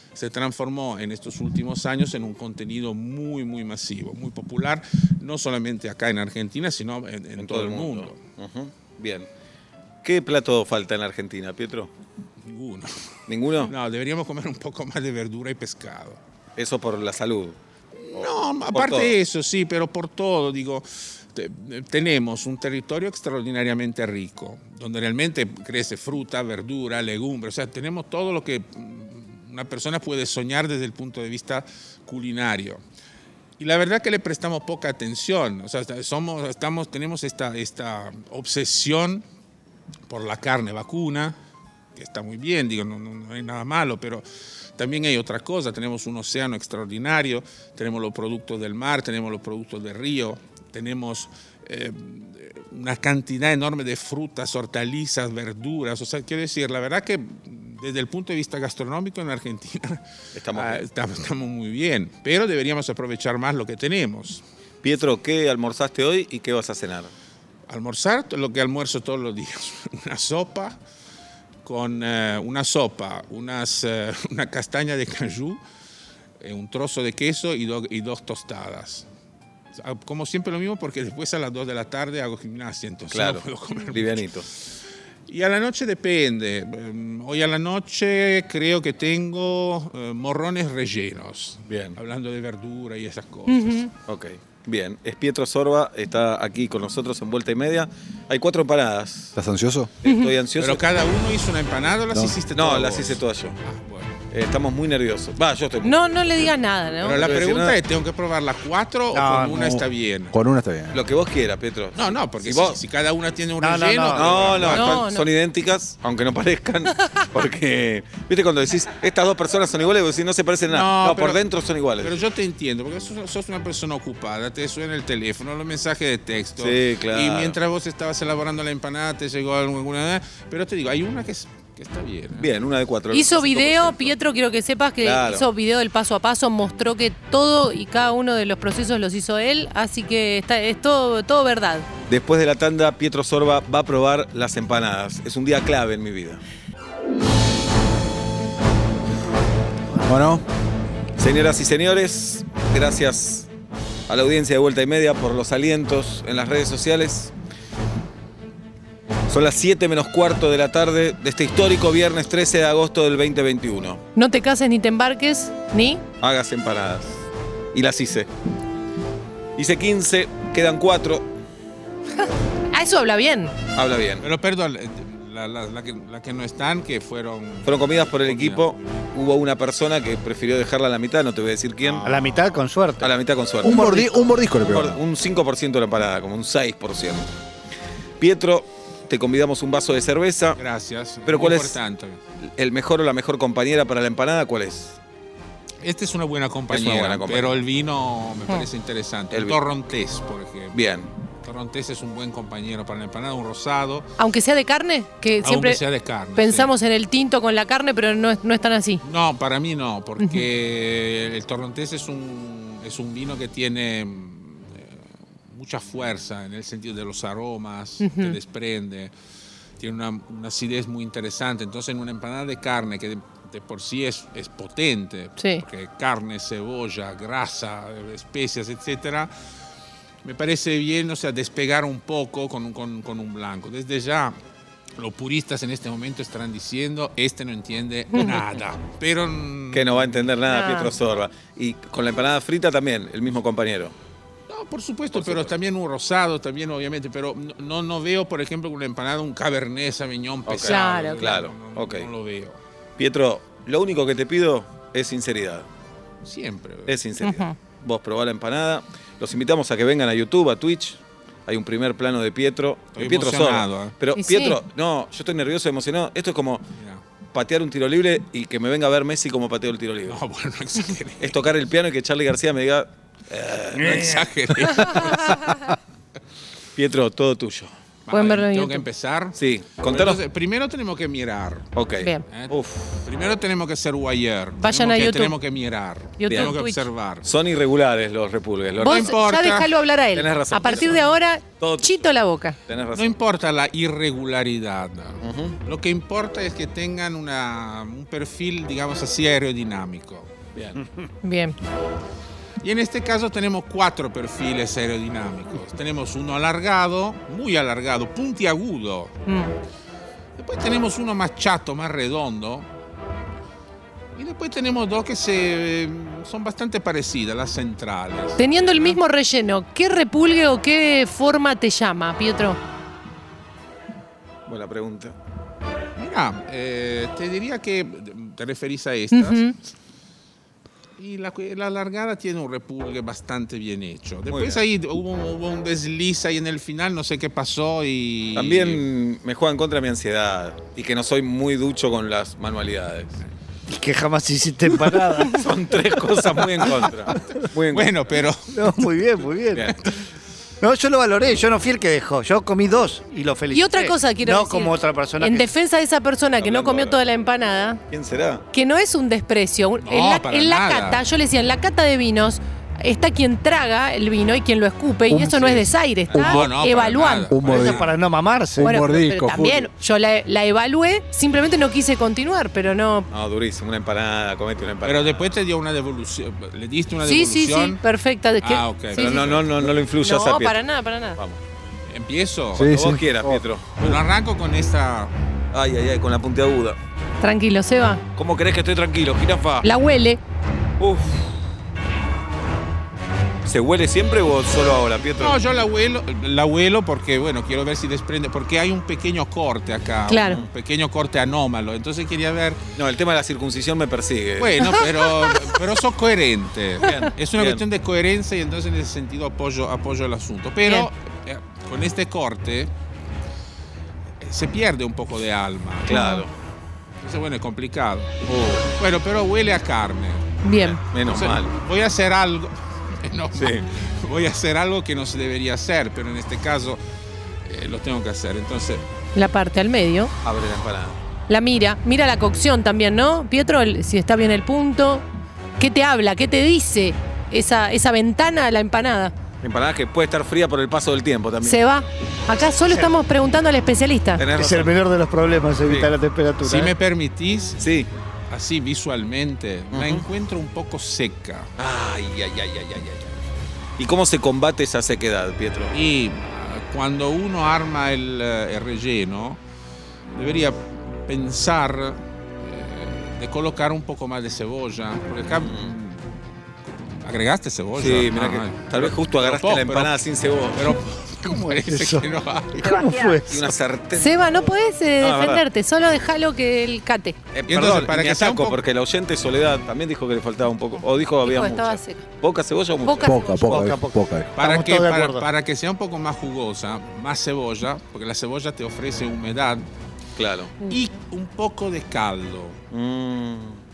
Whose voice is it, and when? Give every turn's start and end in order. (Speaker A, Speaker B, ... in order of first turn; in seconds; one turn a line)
Speaker A: 0.1-8.2
Speaker B: 7.4-9.3
Speaker B: 10.0-11.9
Speaker A: 12.4-12.9
Speaker B: 13.3-13.7
Speaker A: 13.6-16.2
Speaker B: 16.6-17.6
Speaker A: 18.1-32.8
Speaker B: 18.1-19.1
Speaker A: 33.6-39.2
Speaker A: 40.1-41.4
Speaker A: 42.0-44.2
Speaker A: 44.8-64.4
Speaker B: 60.4-60.8
Speaker B: 64.8-67.1
Speaker A: 67.7-70.8
Speaker A: 71.7-75.6
Speaker A: 76.4-79.1
Speaker A: 79.8-84.3
Speaker B: 83.1-84.5
Speaker A: 85.3-93.9
Speaker B: 91.7-92.0
Speaker C: 93.5-93.9
Speaker B: 94.1-99.4
Speaker D: 99.4-99.9
Speaker B: 100.0-100.8
Speaker C: 100.0-100.3
Speaker A: 100.6-104.2
Speaker B: 102.5-103.6
Speaker B: 104.3-106.5
Speaker C: 105.8-107.3
Speaker A: 107.0-110.3
Speaker B: 107.0-107.8
Speaker E: 109.1-109.8
Speaker D: 109.5-109.8
Speaker D: 110.3-111.0
Speaker B: 110.9-112.8
Speaker A: 112.0-115.0
Speaker E: 113.6-114.6
Speaker B: 114.1-122.2
Speaker C: 114.7-115.3
Speaker A: 120.7-121.4
Speaker A: 122.0-132.5
Speaker B: 126.6-127.6
Speaker B: 132.4-134.2
Speaker C: 133.1-141.9
Speaker B: 135.0-135.5
Speaker B: 142.1-146.4
Speaker D: 150.0-150.4
Speaker B: 151.2-153.5
Speaker B: 154.1-157.3
Speaker B: 159.3-164.0
Speaker C: 164.2-166.0
Speaker B: 166.2-168.3
Speaker B: 169.6-171.3
Speaker C: 172.7-173.5
Speaker B: 173.8-174.2
Speaker A: 174.2-178.8
Speaker B: 177.7-182.0
Speaker A: 181.8-182.6
Speaker E: 182.1-184.1
Speaker B: 183.0-184.1
Speaker D: 183.6-185.0
Speaker B: 184.6-187.3
Speaker B: 188.2-190.6
Speaker A: 190.6-192.2
Speaker B: 191.3-191.8
Speaker B: 192.4-195.0
Speaker A: 195.8-200.8
Speaker B: 196.7-197.6
Speaker B: 199.3-199.6
Speaker B: 200.7-201.1
Speaker A: 201.4-204.1
Speaker C: 204.2-205.8
Speaker A: 205.4-206.7
Speaker C: 206.3-209.0
Speaker A: 209.0-219.1
Speaker C: 210.2-210.5
Speaker C: 218.0-218.4
Speaker A: 219.8-229.3
Speaker C: 225.4-225.6
Speaker A: 230.2-234.4
Speaker A: 235.0-240.3
Speaker B: 239.7-243.9
Speaker C: 240.5-240.9
Speaker A: 244.5-252.6
Speaker B: 245.1-245.5
Speaker B: 250.5-252.1
Speaker C: 250.7-251.3
Speaker B: 253.0-255.7
Speaker A: 256.2-257.0
Speaker B: 256.9-266.6
Speaker C: 257.2-257.6
Speaker A: 262.9-264.0
Speaker C: 264.1-264.6
Speaker A: 266.8-267.0
Speaker B: 267.3-270.2
Speaker A: 270.1-271.4
Speaker B: 271.2-274.3
Speaker A: 273.7-275.7
Speaker B: 276.8-277.7
Speaker A: 278.1-281.7
Speaker C: 278.1-278.9
Speaker B: 279.4-280.2
Speaker B: 281.8-283.0
Speaker C: 282.0-282.2
Speaker A: 282.3-287.3
Speaker C: 284.6-285.4
Speaker C: 286.2-286.9
Speaker B: 286.3-286.5
Speaker B: 287.2-289.2
Speaker A: 288.8-289.7
Speaker C: 288.8-292.6
Speaker B: 290.1-292.1
Speaker B: 292.7-293.2
Speaker A: 292.9-300.3
Speaker B: 295.2-295.6
Speaker B: 300.6-300.8
Speaker C: 301.2-301.6
Speaker A: 302.6-309.2
Speaker C: 309.3-309.5
Speaker A: 310.4-312.7
Speaker A: 314.1-319.0
Speaker C: 318.4-322.6
Speaker B: 324.5-325.1
Speaker A: 326.0-329.5
Speaker C: 329.1-329.6
Speaker A: 331.0-338.9
Speaker B: 334.3-334.6
Speaker B: 338.4-343.2
Speaker E: 343.7-345.5
Speaker B: 345.2-347.9
Speaker E: 346.6-347.2
Speaker A: 347.7-348.7
Speaker E: 348.5-349.7
Speaker B: 349.5-349.8
Speaker A: 349.7-350.0
Speaker E: 350.6-355.5
Speaker C: 353.5-357.8
Speaker B: 356.4-357.0
Speaker B: 357.9-358.4
Speaker C: 358.5-367.3
Speaker A: 359.8-361.0
Speaker D: 365.1-365.6
Speaker A: 365.4-367.9
Speaker D: 366.2-366.5
Speaker D: 367.3-367.8
Speaker E: 367.5-368.8
Speaker D: 368.6-369.7
Speaker C: 368.6-373.1
Speaker B: 373.1-375.4
Speaker A: 374.8-377.8
Speaker C: 377.0-379.3
Speaker A: 378.4-379.5
Speaker B: 378.9-380.6
Speaker C: 380.0-381.2
Speaker A: 381.9-382.7
Speaker D: 382.6-383.4
Speaker B: 382.6-383.8
Speaker A: 383.8-385.1
Speaker B: 385.5-386.8
Speaker C: 387.2-388.0
Speaker B: 388.2-389.7
Speaker C: 389.6-390.2
Speaker B: 390.8-391.3
Speaker B: 393.4-395.4
Speaker A: 395.2-402.6
Speaker C: 400.1-400.4
Speaker B: 400.2-400.5
Speaker B: 402.8-404.9
Speaker A: 404.4-412.7
Speaker B: 406.8-407.6
Speaker A: 414.2-416.1
Speaker C: 415.9-416.3
Speaker B: 415.9-416.3
Speaker A: 417.0-426.8
Speaker B: 418.2-418.6
Speaker C: 420.4-420.8
Speaker B: 420.9-421.5
Speaker B: 423.4-423.6
Speaker A: 427.4-428.8
Speaker C: 429.1-430.1
Speaker B: 430.2-431.1
Speaker C: 431.3-435.1
Speaker C: 435.6-439.1
Speaker B: 439.4-441.6
Speaker C: 441.4-444.2
Speaker B: 444.2-444.8
Speaker E: 444.3-446.7
Speaker B: 445.6-445.9
Speaker A: 446.4-447.6
Speaker B: 447.6-447.9
Speaker A: 448.3-451.5
Speaker B: 449.7-450.0
Speaker B: 451.6-453.1
Speaker B: 453.8-455.7
Speaker A: 455.7-459.4
Speaker A: 460.1-466.1
Speaker B: 465.4-465.7
Speaker A: 466.8-472.8
Speaker B: 467.8-470.8
Speaker E: 471.7-473.5
Speaker B: 473.3-475.4
Speaker C: 473.9-477.2
Speaker B: 477.3-483.7
Speaker A: 477.5-478.6
Speaker C: 481.2-482.1
Speaker C: 482.9-483.6
Speaker D: 483.0-484.3
Speaker E: 483.5-485.3
Speaker A: 484.4-489.7
Speaker B: 490.2-490.5
Speaker A: 490.7-492.6
Speaker B: 492.7-493.6